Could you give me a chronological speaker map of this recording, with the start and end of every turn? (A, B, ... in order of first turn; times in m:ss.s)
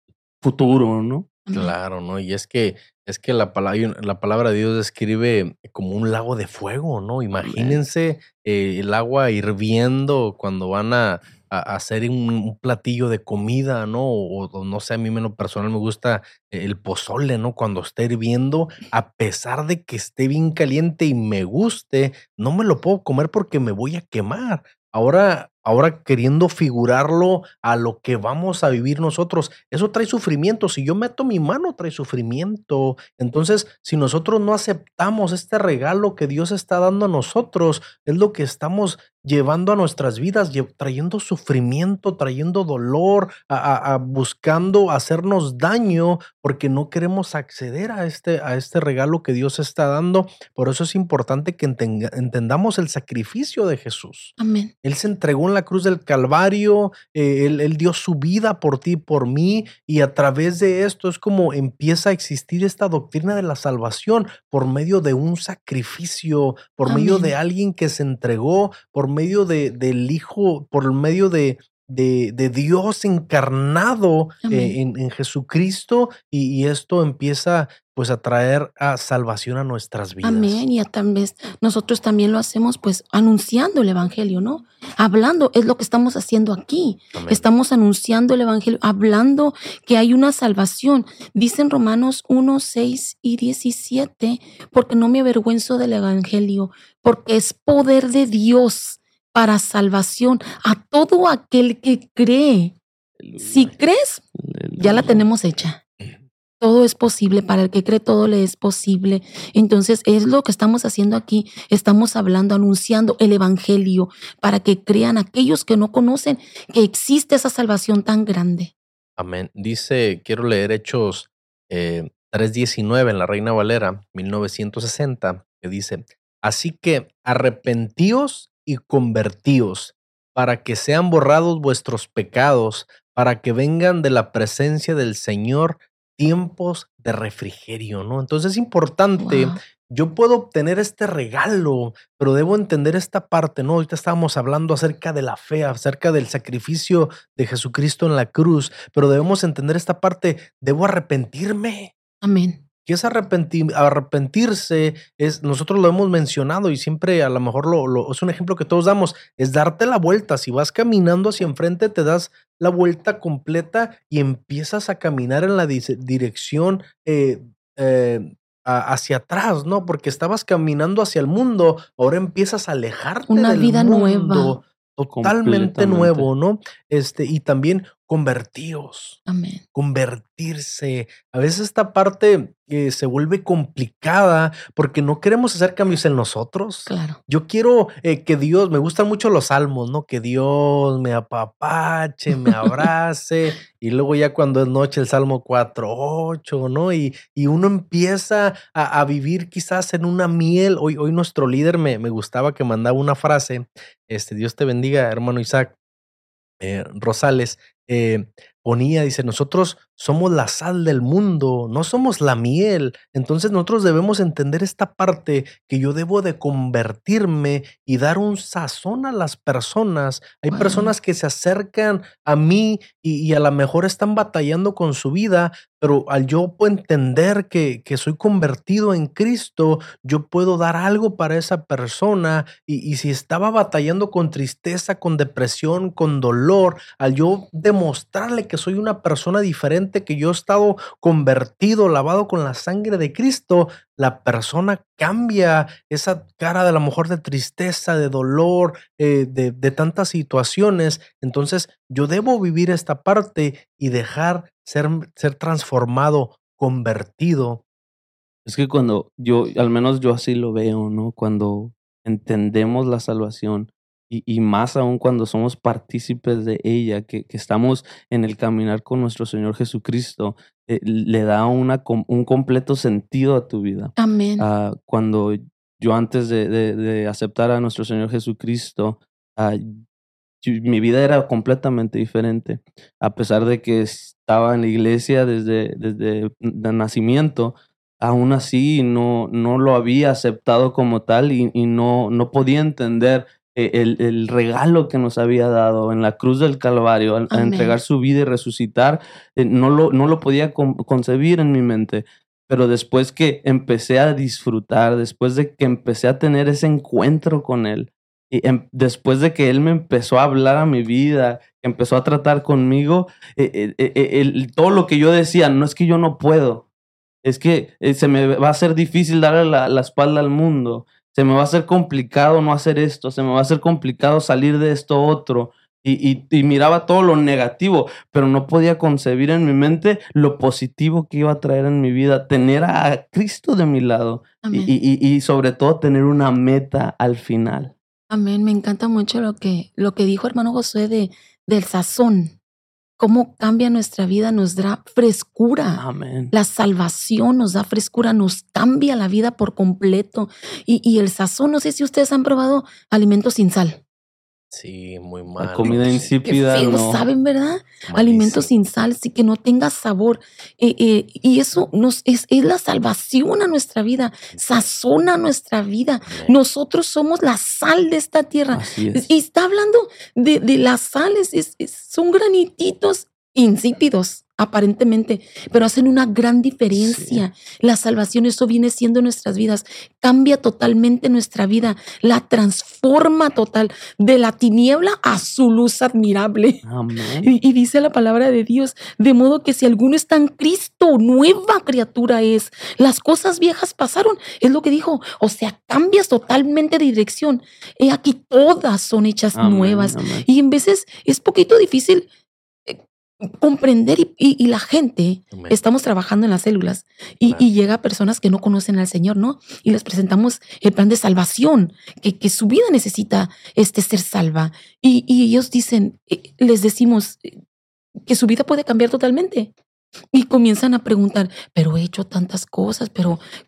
0:00.4-0:01.3 A
0:01.5-0:01.7 B
0:01.5-1:20.6 C
0:07.4-0:07.8 A
0:54.4-0:54.7 B
1:06.9-1:07.3 B
1:14.4-1:14.8 B
1:20.2-1:42.8 B
1:27.1-1:27.5 C
1:43.2-1:43.8 A
1:43.4-1:44.2 B
1:44.4-1:45.2 A
1:44.8-1:45.8 B
1:46.6-1:58.7 B
1:59.2-2:31.9 C
2:19.2-2:19.6 B
2:32.2-2:32.6 B
2:32.8-2:59.2 C
2:53.3-2:54.6 B
2:55.1-2:56.3 A
2:59.3-2:59.6 B
2:59.7-3:25.8 C
3:06.9-3:07.2 B
3:26.6-4:17.6 C
3:40.5-3:40.9 B
4:18.5-4:39.8 A
4:34.0-4:34.5 B
4:40.4-5:16.7 A
4:57.3-4:57.8 B
5:17.2-5:37.7 A
5:34.4-5:34.7 B
5:38.1-5:42.4 B
5:43.0-5:53.8 B
5:45.7-5:46.3 A
5:54.5-5:56.2 C
5:55.4-5:57.0 A
5:55.6-6:26.6 B
5:57.8-5:58.5 C
6:06.1-6:06.3 C
6:08.5-6:09.1 A
6:16.7-6:17.2 A
6:26.6-6:27.3 A
6:27.2-6:42.1 B
6:39.4-6:40.3 A
6:42.7-6:57.3 B
6:45.3-6:45.6 C
6:58.0-6:59.5 B
7:00.1-7:03.2 B